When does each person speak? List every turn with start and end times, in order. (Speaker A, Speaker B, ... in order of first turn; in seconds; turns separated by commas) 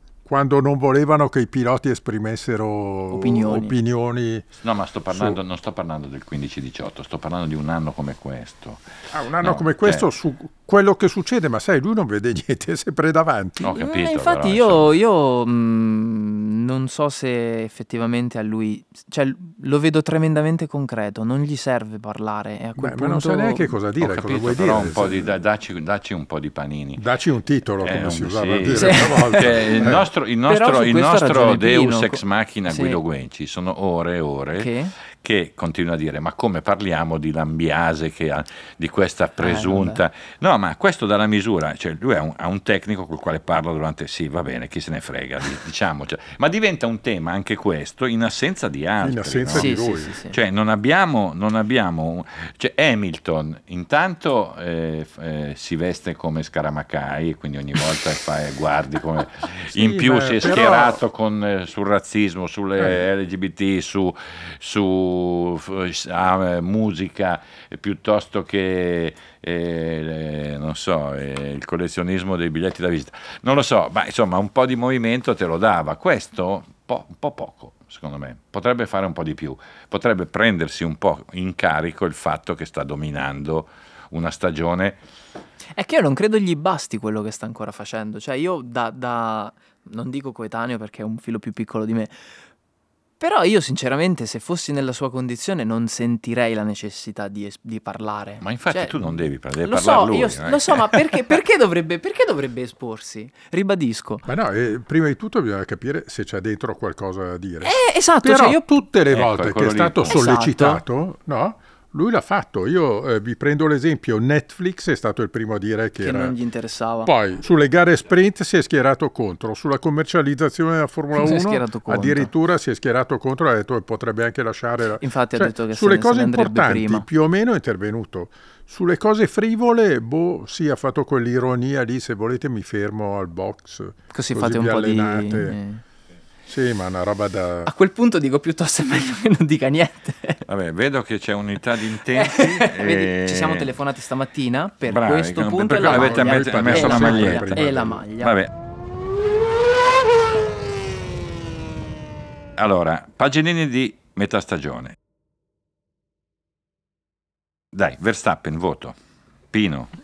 Speaker A: 0.2-4.5, Speaker B: 3.1-3.8, Speaker C: 4.6-8.9, Speaker A: 5.1-5.4, Speaker A: 9.1-13.7, Speaker C: 9.4-10.1, Speaker C: 13.6-14.9, Speaker B: 13.6-23.8, Speaker A: 22.8-25.3, Speaker C: 24.0-27.0, Speaker A: 27.0-30.1, Speaker C: 27.8-49.8, Speaker B: 28.8-29.7, Speaker B: 30.5-33.0, Speaker B: 34.6-34.9, Speaker B: 39.4-40.0, Speaker A: 49.0-50.2, Speaker B: 49.5-50.4, Speaker C: 50.3-85.0, Speaker A: 59.7-61.0, Speaker B: 85.7-92.2, Speaker B: 93.2-99.0, Speaker C: 98.4-101.2, Speaker B: 99.6-104.3, Speaker A: 104.3-116.3, Speaker B: 107.6-108.6, Speaker C: 109.1-110.2, Speaker B: 110.1-110.8, Speaker B: 116.0-117.1, Speaker A: 117.0-135.6, Speaker B: 121.2-122.3, Speaker B: 125.0-127.1, Speaker B: 134.1-135.8, Speaker A: 136.5-137.7, Speaker B: 137.7-140.4, Speaker C: 140.5-143.8, Speaker B: 142.1-148.3, Speaker C: 144.8-147.7, Speaker A: 145.8-148.0, Speaker C: 148.2-148.5, Speaker C: 152.6-155.0, Speaker C: 157.7-159.0, Speaker C: 159.5-159.9